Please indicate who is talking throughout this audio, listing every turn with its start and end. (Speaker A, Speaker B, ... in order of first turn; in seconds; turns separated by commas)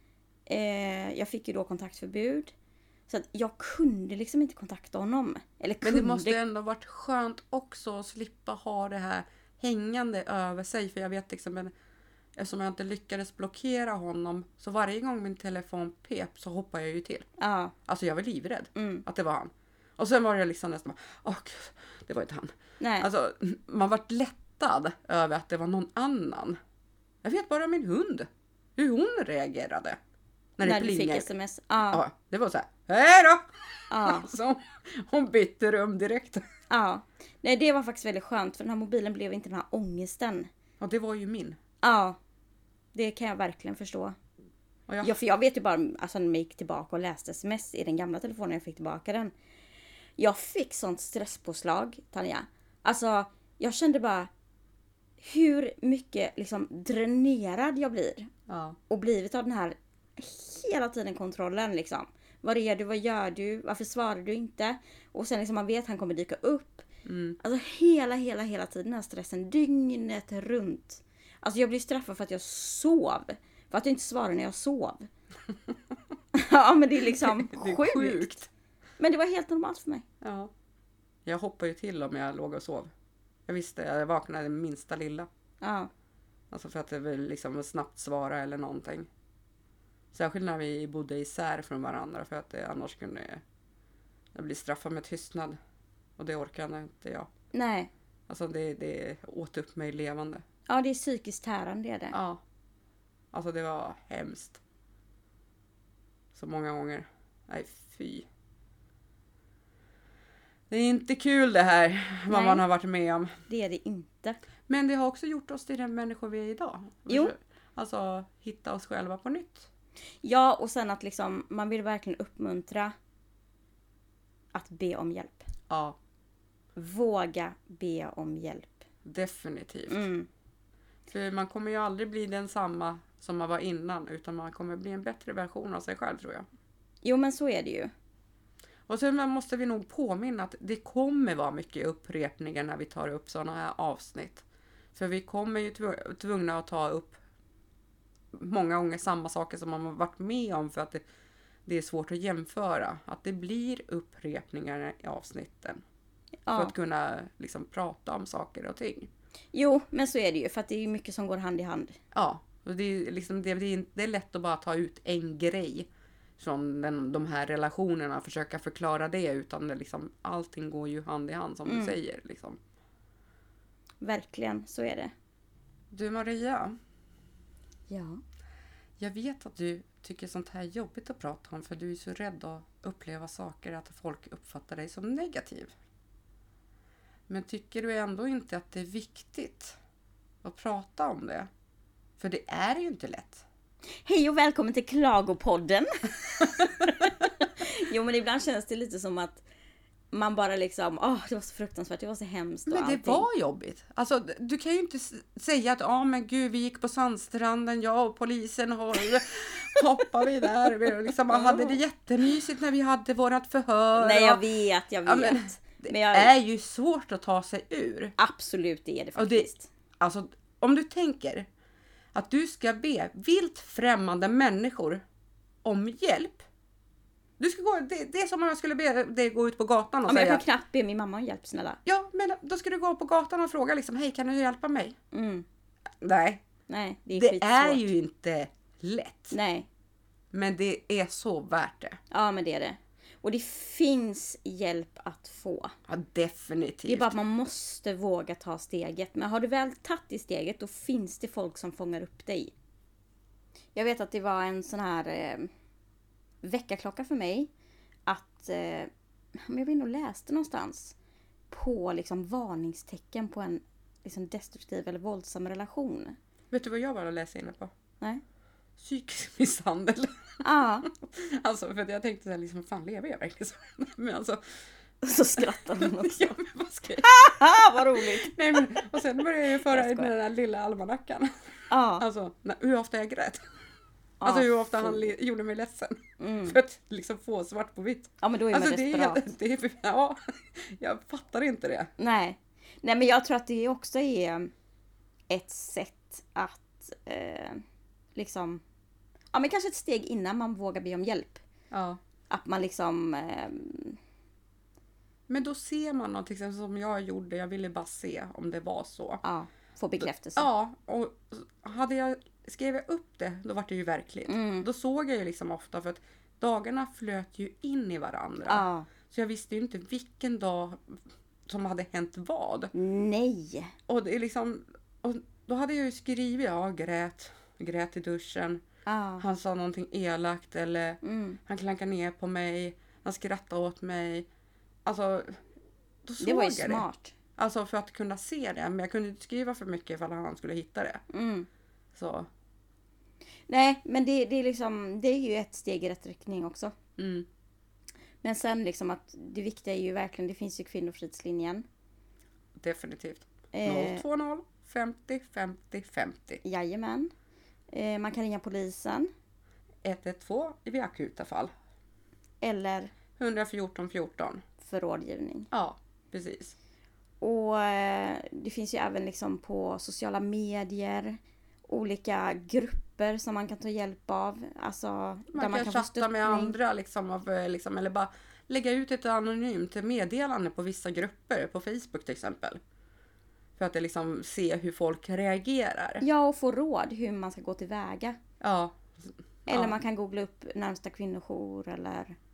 Speaker A: 0.5-2.5, Speaker A: 3.1-6.4, Speaker B: 5.8-11.7, Speaker B: 12.4-17.3, Speaker A: 17.4-17.7, Speaker B: 17.9-26.6, Speaker A: 18.8-19.1, Speaker A: 22.8-23.1, Speaker B: 27.2-30.0, Speaker B: 30.6-31.3, Speaker A: 30.6-32.0, Speaker B: 31.9-36.4, Speaker A: 33.9-34.3, Speaker A: 36.7-40.5, Speaker B: 40.8-41.6, Speaker A: 41.8-42.2, Speaker A: 42.9-44.2, Speaker B: 44.9-45.2, Speaker A: 45.0-49.3, Speaker A: 50.2-54.3, Speaker A: 55.2-58.3, Speaker B: 58.5-58.8, Speaker A: 58.9-66.8, Speaker B: 67.0-67.4, Speaker A: 67.4-75.1, Speaker A: 76.3-78.4, Speaker B: 77.1-78.5, Speaker A: 79.0-80.1, Speaker B: 80.2-80.5, Speaker B: 81.3-82.9, Speaker B: 83.5-85.3, Speaker A: 85.6-85.9, Speaker B: 86.5-89.1, Speaker B: 90.1-93.4, Speaker B: 94.3-95.6, Speaker B: 96.2-97.3, Speaker A: 97.5-97.9, Speaker B: 98.3-100.4, Speaker A: 100.7-102.2, Speaker B: 102.1-102.4, Speaker B: 103.3-104.6, Speaker B: 106.3-108.3, Speaker B: 110.7-113.3, Speaker A: 112.3-112.6, Speaker A: 113.5-114.4, Speaker B: 114.7-119.7, Speaker A: 120.2-122.9, Speaker A: 124.5-125.5, Speaker B: 125.7-126.0, Speaker A: 126.8-128.9, Speaker B: 129.1-130.0, Speaker A: 129.9-130.3, Speaker B: 131.1-136.5, Speaker A: 137.0-137.9, Speaker B: 138.9-144.4, Speaker B: 144.9-147.2, Speaker B: 148.3-151.0, Speaker B: 151.7-155.8, Speaker A: 156.5-156.7, Speaker B: 156.5-159.1, Speaker A: 159.5-162.0, Speaker B: 162.1-165.9, Speaker B: 166.4-172.6, Speaker A: 171.7-172.0, Speaker A: 174.0-175.1, Speaker B: 175.9-176.8, Speaker A: 177.9-178.2, Speaker B: 179.0-185.7, Speaker B: 187.3-189.8, Speaker B: 190.4-191.5, Speaker B: 192.2-193.4, Speaker A: 194.1-199.4, Speaker A: 200.1-203.3, Speaker B: 202.7-214.4, Speaker A: 210.8-211.8, Speaker A: 214.0-216.3, Speaker B: 215.1-218.1, Speaker A: 218.2-219.7, Speaker B: 219.2-219.5, Speaker B: 220.0-221.5, Speaker B: 222.1-225.0, Speaker B: 225.6-226.4, Speaker B: 227.4-230.4, Speaker A: 230.1-231.8, Speaker B: 231.9-235.0, Speaker A: 235.1-235.4, Speaker B: 236.0-236.4, Speaker A: 236.7-237.9, Speaker B: 237.2-239.3, Speaker A: 239.3-239.7, Speaker B: 240.3-242.0, Speaker A: 242.1-245.7, Speaker B: 245.9-247.1, Speaker A: 246.8-252.5, Speaker A: 253.8-255.5, Speaker A: 256.4-257.5, Speaker A: 258.1-260.9, Speaker A: 261.5-266.2, Speaker B: 266.5-267.7, Speaker B: 268.8-270.1, Speaker A: 270.4-270.9, Speaker B: 270.9-274.4, Speaker A: 275.0-276.3, Speaker B: 275.4-281.3, Speaker A: 277.0-280.1, Speaker A: 281.7-282.1, Speaker B: 282.0-283.4, Speaker A: 284.2-285.1, Speaker B: 284.2-291.9, Speaker A: 286.2-286.6, Speaker A: 288.2-289.3, Speaker A: 292.0-294.5, Speaker A: 295.3-297.6, Speaker A: 298.1-298.6, Speaker A: 299.3-301.4, Speaker B: 301.7-302.0, Speaker A: 302.3-304.0, Speaker B: 305.3-309.2, Speaker A: 309.2-310.5, Speaker B: 310.0-322.7, Speaker A: 314.3-314.7, Speaker A: 318.5-318.9, Speaker A: 322.7-323.8, Speaker B: 323.9-328.6, Speaker A: 328.9-329.2, Speaker B: 329.2-334.3, Speaker A: 331.0-331.4, Speaker B: 334.9-335.4, Speaker B: 336.1-336.9, Speaker A: 336.2-337.2, Speaker B: 337.4-341.0, Speaker A: 341.1-341.5, Speaker B: 341.9-342.3, Speaker A: 343.5-346.8, Speaker B: 347.0-347.3, Speaker A: 348.2-351.6, Speaker B: 352.6-356.4, Speaker A: 353.5-354.0, Speaker A: 356.4-357.1, Speaker A: 357.7-359.1, Speaker B: 359.8-361.5, Speaker A: 362.4-362.9, Speaker B: 363.2-364.4, Speaker A: 364.6-365.5, Speaker B: 365.5-366.6, Speaker A: 367.2-376.6, Speaker B: 375.3-382.6, Speaker B: 383.6-386.0, Speaker A: 386.0-388.2, Speaker B: 388.4-389.8, Speaker A: 389.5-392.2